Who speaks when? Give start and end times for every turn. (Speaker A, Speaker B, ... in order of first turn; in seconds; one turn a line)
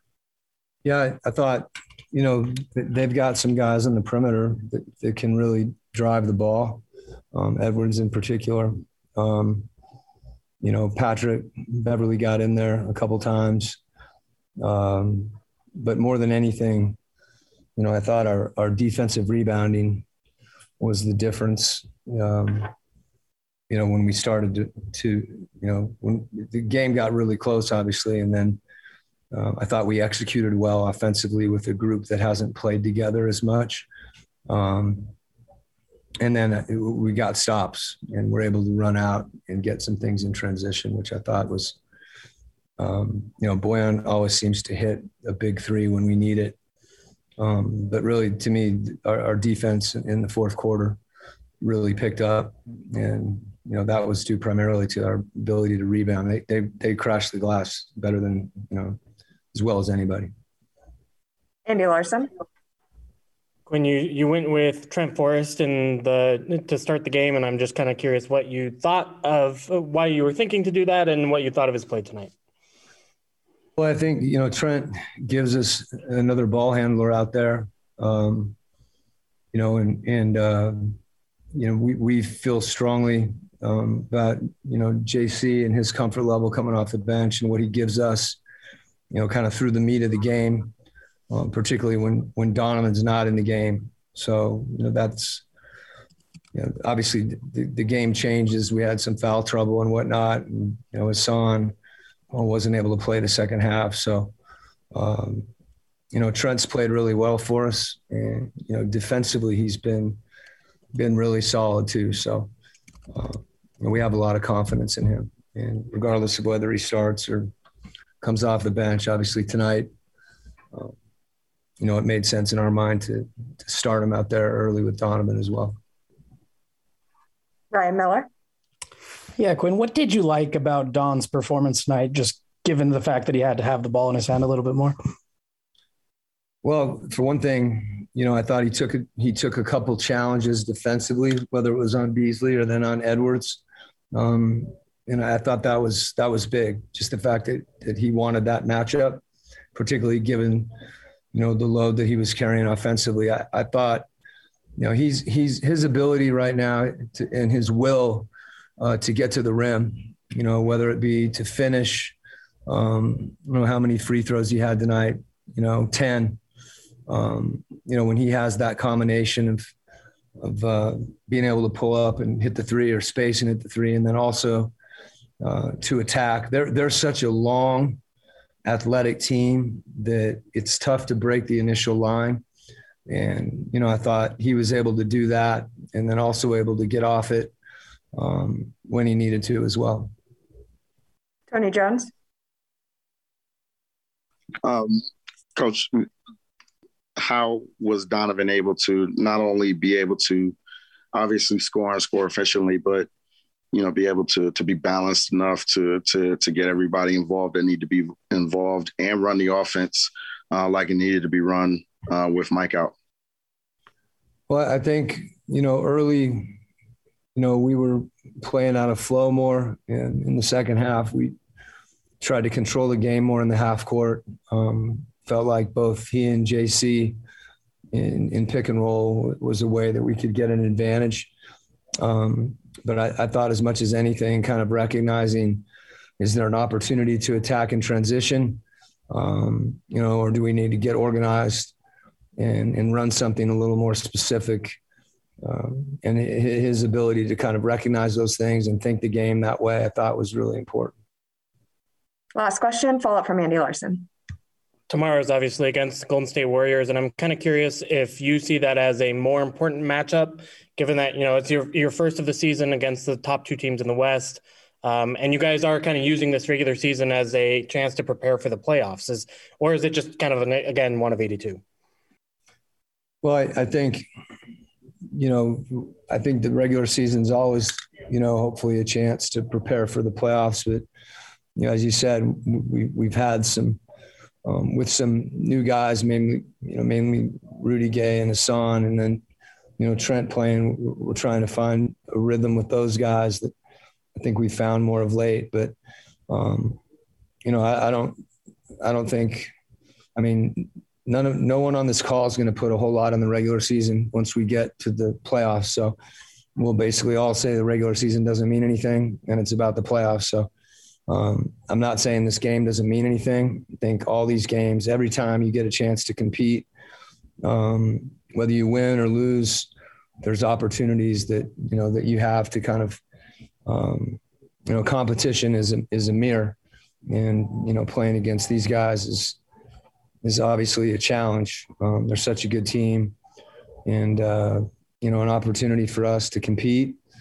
Speaker A: 0.8-9.7
Speaker A: 10.6-13.8
Speaker A: 14.6-17.0
Speaker A: 17.8-20.0
Speaker A: 20.8-22.7
Speaker A: 23.7-28.6
Speaker A: 29.3-33.9
Speaker A: 34.5-35.1
Speaker A: 36.2-41.8
Speaker A: 42.8-46.5
Speaker A: 47.4-51.0
Speaker A: 51.6-59.0
Speaker A: 59.5-60.3
Speaker B: 61.6-62.3
Speaker C: 63.7-72.3
Speaker A: 73.8-78.5
Speaker A: 79.5-81.0
Speaker A: 81.5-88.4
Speaker A: 89.1-90.7
Speaker A: 91.3-95.4
Speaker A: 96.5-101.7
Speaker A: 102.3-104.3
Speaker A: 104.9-105.5
Speaker A: 106.1-110.2
Speaker A: 110.9-112.5
Speaker A: 113.1-117.5
Speaker A: 118.2-119.9
Speaker A: 121.8-125.8
Speaker B: 127.7-128.3
Speaker D: 129.4-135.0
Speaker A: 136.6-143.6
Speaker A: 144.1-149.2
Speaker A: 149.7-150.7
Speaker A: 151.3-154.1
Speaker A: 154.8-166.4
Speaker A: 167.1-169.7
Speaker A: 170.4-174.7
Speaker A: 175.4-178.0
Speaker A: 178.6-182.4
Speaker A: 183.1-187.5
Speaker A: 188.1-190.1
Speaker B: 191.5-192.1
Speaker E: 194.6-195.0
Speaker E: 195.5-196.1
Speaker E: 197.2-200.6
Speaker E: 201.1-203.1
Speaker E: 203.7-212.9
Speaker A: 214.5-216.6
Speaker A: 217.3-221.3
Speaker A: 222.2-227.2
Speaker A: 227.9-231.3
Speaker A: 232.0-235.6
Speaker A: 236.2-241.7
Speaker A: 242.4-244.8
Speaker A: 245.4-250.9
Speaker B: 252.3-254.1
Speaker C: 254.9-271.6
Speaker A: 273.2-274.1
Speaker A: 275.1-280.9
Speaker A: 281.6-283.8
Speaker A: 284.4-289.2
Speaker A: 289.8-293.5
Speaker A: 294.1-295.7
Speaker A: 296.3-296.8
Speaker A: 297.4-298.2
Speaker A: 298.8-299.5
Speaker A: 300.1-306.0
Speaker A: 306.6-310.5
Speaker A: 311.1-316.7
Speaker A: 317.4-323.0
Speaker A: 323.6-329.4
Speaker A: 330.2-333.1
Speaker A: 333.8-337.0